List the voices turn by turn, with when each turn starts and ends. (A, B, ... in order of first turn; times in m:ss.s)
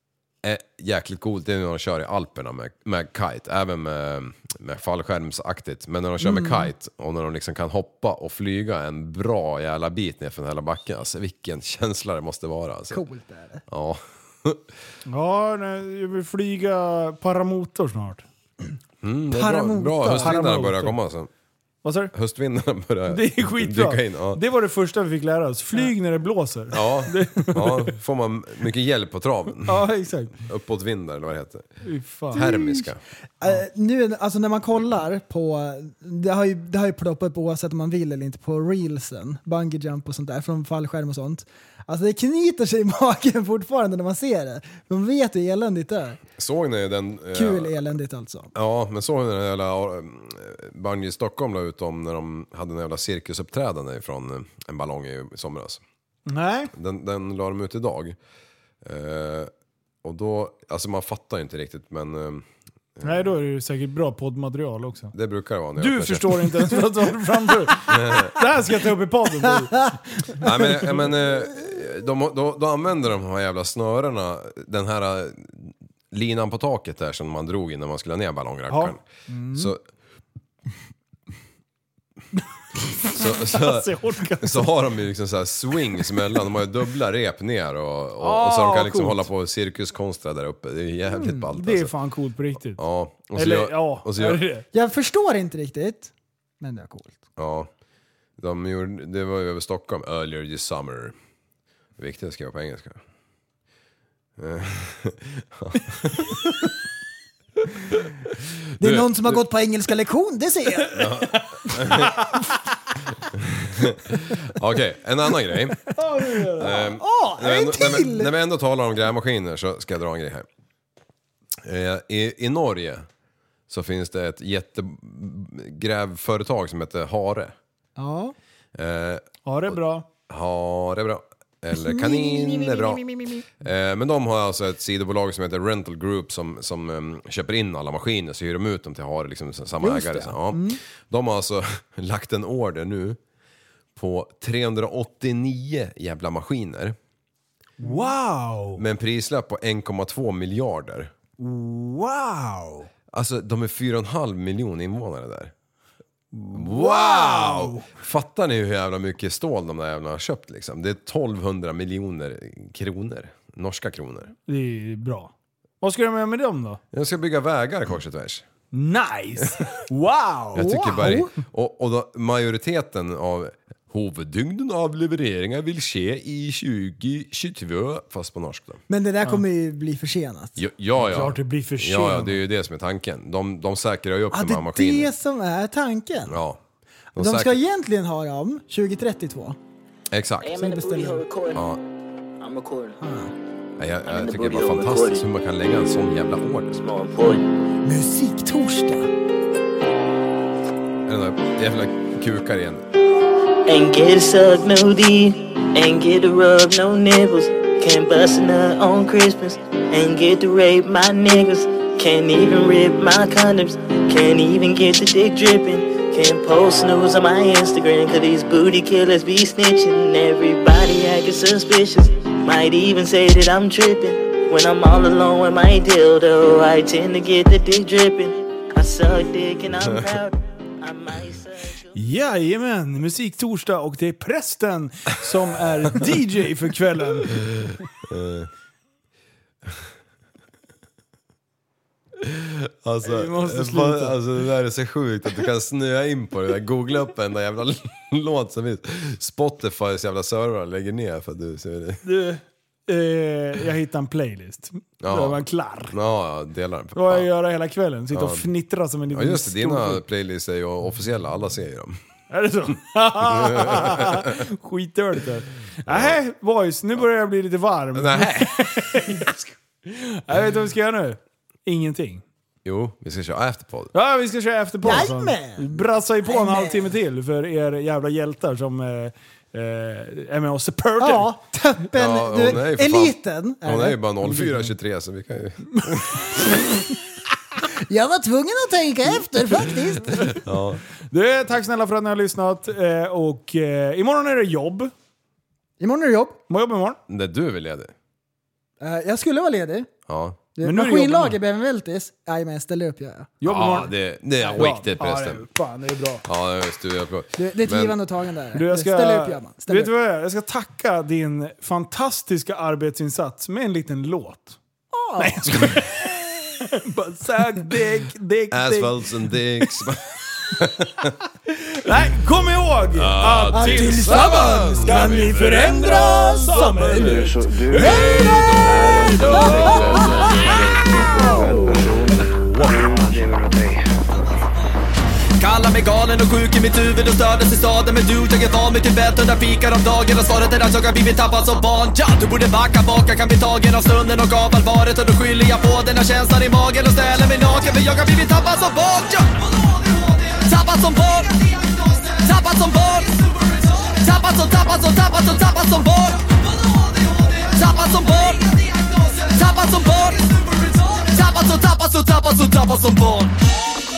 0:00.4-0:13.0 A
0:06.2-0:06.7 B
0:12.9-0:13.6 B
0:13.7-0:14.6 A
0:15.1-0:18.2 C
0:19.0-0:21.3 A
0:19.3-0:20.4 B
0:20.2-0:20.9 C
0:21.8-0:22.1 C
0:22.1-0:24.4 A
0:23.1-0:27.9 C
0:26.7-0:29.9 A
0:29.6-0:30.4 C
0:30.4-0:31.7 A
0:31.8-0:32.7 C
0:32.3-0:33.0 A
0:33.4-0:46.2 B
0:46.4-0:47.8 A
0:47.3-0:48.5 B
0:48.5-0:55.8 A
0:56.3-0:56.7 C
0:56.7-0:58.2 A
0:58.8-0:59.5 A
1:00.0-1:02.4 A
1:03.0-1:03.3 A
1:03.0-1:05.1 C
1:05.1-1:06.6 A
1:05.8-1:10.2 C
1:07.9-1:08.4 A
1:10.4-1:19.0 A
1:18.7-1:19.7 C
1:19.5-1:19.8 A
1:22.8-1:24.7 C
1:23.1-1:31.9 A
1:28.2-1:29.2 C
1:31.5-1:32.8 C
1:32.8-1:34.4 A
1:33.3-1:34.6 C
1:34.7-1:37.2 B
1:37.4-1:37.7 A
1:38.4-1:41.1 A
1:42.0-1:43.0 A
1:44.4-1:46.3 A
1:48.8-1:51.0 B
1:48.8-1:49.4 A
1:50.9-1:52.2 A
1:53.3-1:55.9 A
1:55.9-1:56.8 C
1:56.6-1:58.3 B
1:56.6-2:00.4 A
2:01.6-2:03.0 A
2:03.7-2:07.5 A
2:08.0-2:08.3 B
2:08.8-2:09.8 A
2:09.4-2:10.0 C
2:10.3-2:13.0 A
2:11.7-2:13.4 B
2:13.6-2:23.2 A
2:19.8-2:20.8 B
2:24.0-2:27.0 A
2:27.8-2:28.8 C
2:28.8-2:31.1 A
2:31.4-2:32.9 C
2:33.1-2:35.5 A
2:36.3-2:37.9 C
2:36.5-2:44.3 A
2:44.4-2:46.8 C
2:46.9-2:48.4 A
2:48.7-2:50.6 C
2:50.5-2:58.8 A
2:50.5-2:51.3 B
2:58.9-3:00.6 B
3:00.6-3:05.1 A
3:01.0-3:02.4 C
3:04.3-3:06.4 B
3:06.3-3:06.6 A
3:07.2-3:07.6 A
3:07.2-3:09.6 B
3:10.1-3:10.6 A
3:10.4-3:11.7 D
3:10.5-3:11.2 B
3:11.5-3:11.8 A
3:12.4-3:13.0 D
3:13.0-3:13.3 B
3:13.8-3:16.8 A
3:14.0-3:15.2 D
3:16.8-3:17.4 D
3:17.3-3:19.1 B
3:21.1-3:22.9 A
3:23.6-3:51.9 D
3:51.9-3:57.6 C
3:58.0-3:58.5 A
4:02.2-4:12.0 A
4:03.0-4:04.2 C
4:12.0-4:15.9 C
4:15.0-4:17.3 A
4:16.9-4:20.0 C
4:18.1-4:18.5 A
4:19.1-4:22.0 A
4:22.3-4:32.2 C
4:23.2-4:24.3 A
4:25.9-4:26.2 A
4:27.9-4:28.7 A
4:32.6-4:33.9 A
4:33.9-4:41.3 C
4:34.8-4:35.6 B
4:36.2-4:36.9 B
4:41.0-4:44.0 B
4:41.9-4:46.4 A
4:44.2-4:44.7 C
4:45.9-4:46.4 C
4:47.8-4:50.3 B
4:50.3-4:50.8 A
4:51.1-4:54.9 C
4:55.8-4:56.4 B
4:56.5-4:57.0 C
4:57.1-4:57.9 A
4:58.8-4:59.9 B
5:00.1-5:00.4 A
5:00.6-5:03.3 B
5:00.6-5:01.4 C
5:03.4-5:03.9 C
5:03.4-5:05.4 A
5:04.5-5:06.2 C
5:06.2-5:08.0 A
5:07.4-5:09.9 B
5:08.5-5:14.6 C
5:14.9-5:15.5 B
5:15.2-5:18.9 C
5:18.5-5:21.1 A
5:21.5-5:28.0 C
5:22.9-5:25.8 A
5:23.5-5:27.2 B
5:26.9-5:34.0 E
5:27.7-5:30.8 A
5:29.2-5:29.8 C
5:29.4-5:30.4 B
5:31.1-5:31.6 B
5:35.4-6:03.3 F